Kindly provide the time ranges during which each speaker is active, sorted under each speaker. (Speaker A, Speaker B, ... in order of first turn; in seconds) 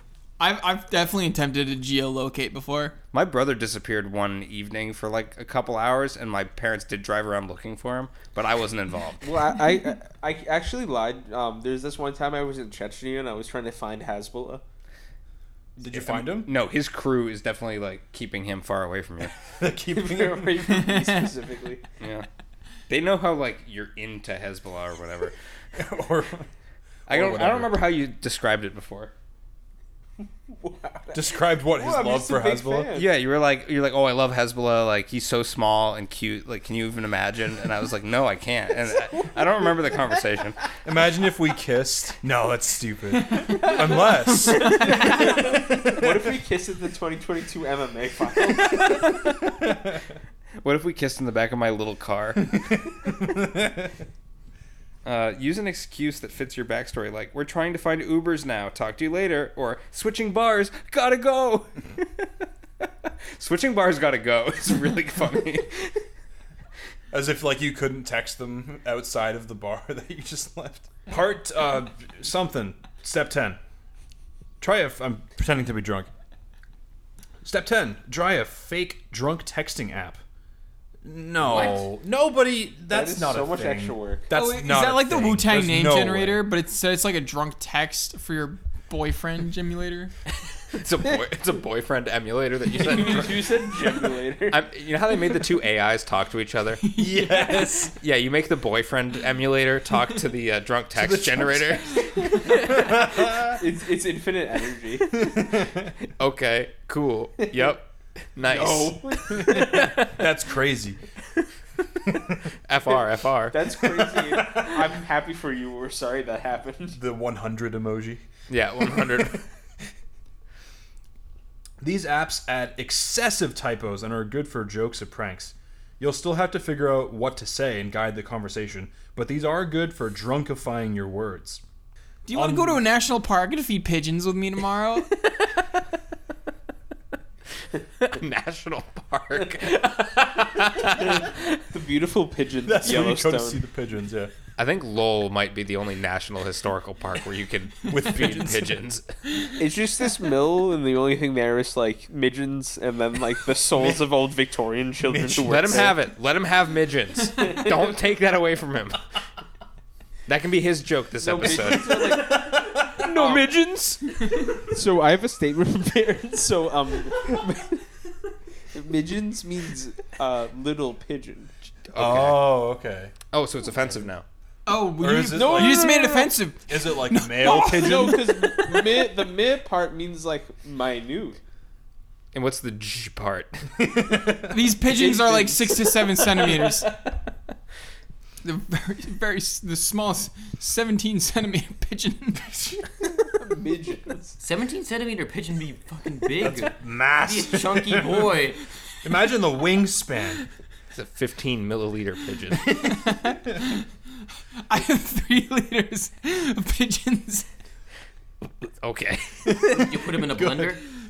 Speaker A: 0.4-2.9, 20.7-21.3, 84.3-90.1, 96.8-97.8, 132.3-135.1, 174.7-179.0, 184.5-186.9, 188.4-193.1, 202.7-203.9, 204.6-207.5
Speaker B: 3.1-9.3, 15.9-19.3, 22.0-22.3, 22.9-25.4, 27.1-29.1, 32.9-40.8, 48.8-49.1, 50.6-52.6, 55.0-62.3, 62.8-66.0, 90.7-93.7, 94.5-96.9, 97.9-102.5, 106.2-110.1, 112.7-113.6, 118.5-119.4, 138.0-141.6, 144.6-149.1, 155.4-159.0, 160.3-164.2, 171.9-172.6, 173.3-174.2, 182.3-183.6, 200.9-202.8, 208.8-209.8
Speaker C: 9.2-14.6, 19.9-21.9, 30.5-33.1, 44.6-49.1, 82.9-84.3, 92.8-94.7, 102.8-105.6, 107.4-107.7, 108.4-110.0, 113.5-117.0, 140.8-143.6, 149.6-155.9, 161.2-163.5, 164.6-167.8, 168.7-171.5, 175.3-176.3, 177.5-181.4, 184.9-186.6, 193.3-194.4
Speaker D: 15.8-16.5, 19.5-20.7, 25.8-26.5, 27.1-27.9, 31.1-32.9, 40.8-46.2, 52.9-53.9, 67.1-73.6, 74.6-76.1, 77.4-80.2, 81.0-86.5, 96.9-97.9, 100.9-103.6, 105.1-105.9, 109.4-111.0, 112.1-112.4, 113.8-114.9, 116.9-118.2, 121.8-131.6, 132.3-132.8, 142.6-144.3, 147.9-148.8, 153.7-154.1, 155.1-155.9, 161.5-163.0, 171.9-173.2, 175.0-175.9, 176.7-178.2, 183.8-184.6, 196.4-198.4, 199.0-200.4, 209.4-210.8
Speaker E: 81.4-81.9, 194.4-198.6, 209.7-210.8